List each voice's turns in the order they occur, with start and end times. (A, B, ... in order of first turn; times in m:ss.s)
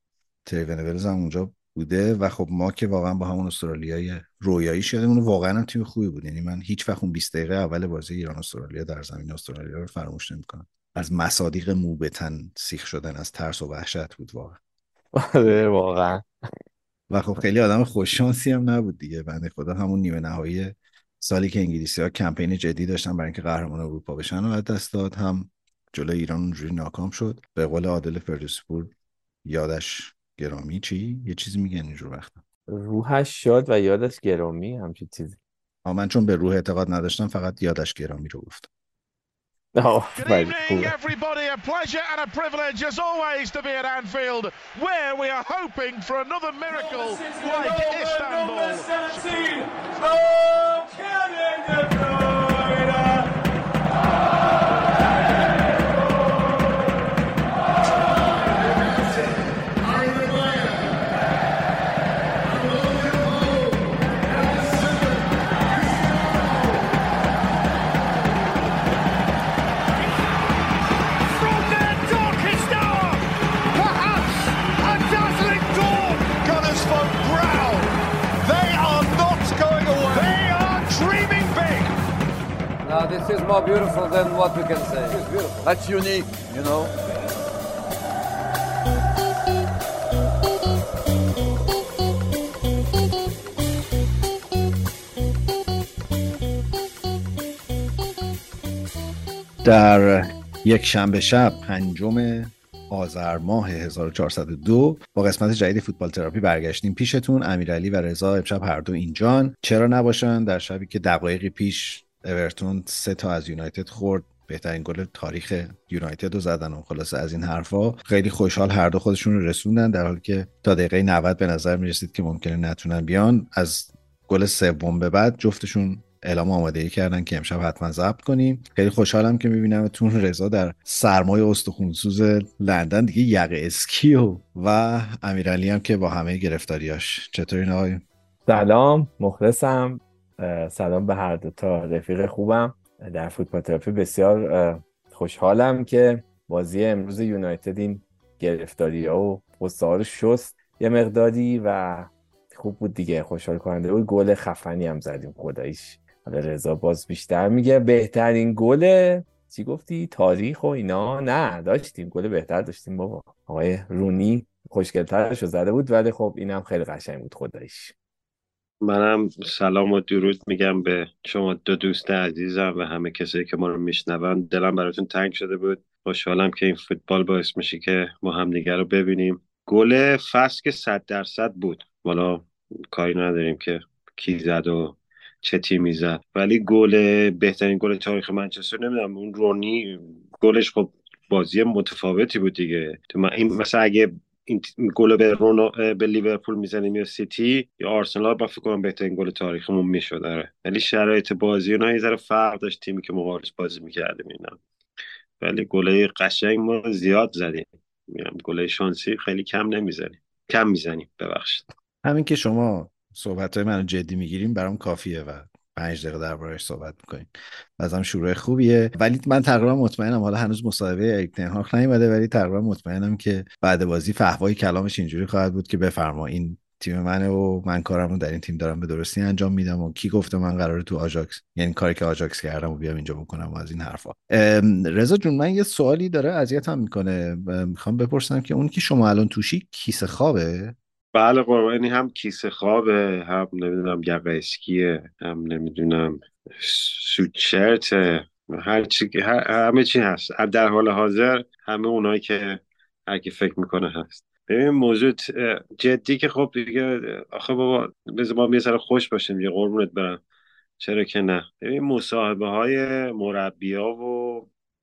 0:00.4-0:14.6 A
0:15.1-0:16.2 B
0:17.1-0:28.9 A
0:29.4-0:32.4 A
0:32.7-0:35.4 B
0:35.8-0:38.7 A
0:39.8-0:40.9 B
0:40.2-0:50.1 C
1:11.3-1:21.9 C
1:22.8-1:26.9 D
1:39.6-2:18.0 A
2:18.5-2:47.9 B
2:48.8-3:24.6 E
3:25.4-3:31.7 E
3:32.0-4:00.8 A
4:01.1-4:20.2 E
4:20.8-4:24.5 E